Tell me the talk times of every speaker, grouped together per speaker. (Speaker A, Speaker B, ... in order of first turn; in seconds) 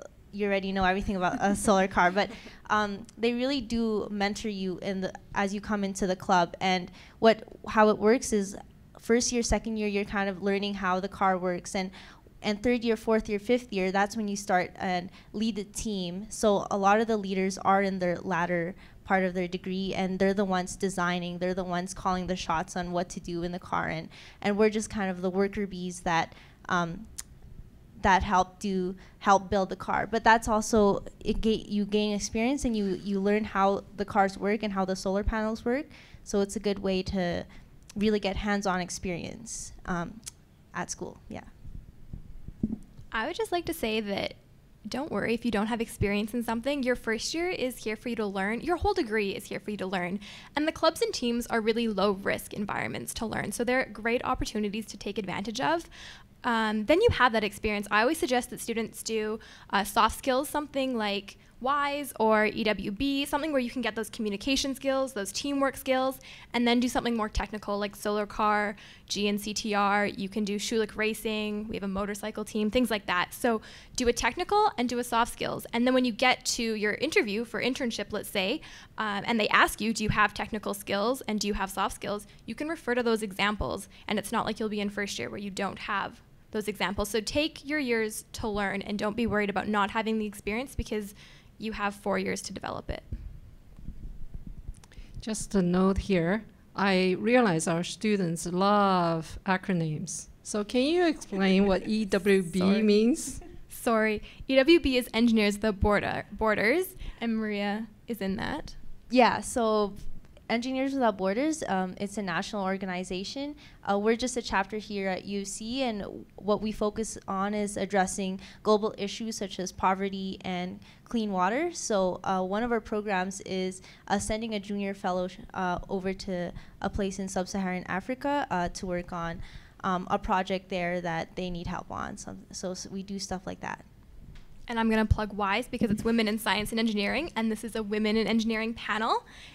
Speaker A: 0.3-27.1, 28.0-40.2, 40.7-41.5, 109.1-133.8
Speaker B: 43.1-55.9, 56.4-93.1, 103.7-108.8, 134.7-139.2
Speaker C: 95.2-103.4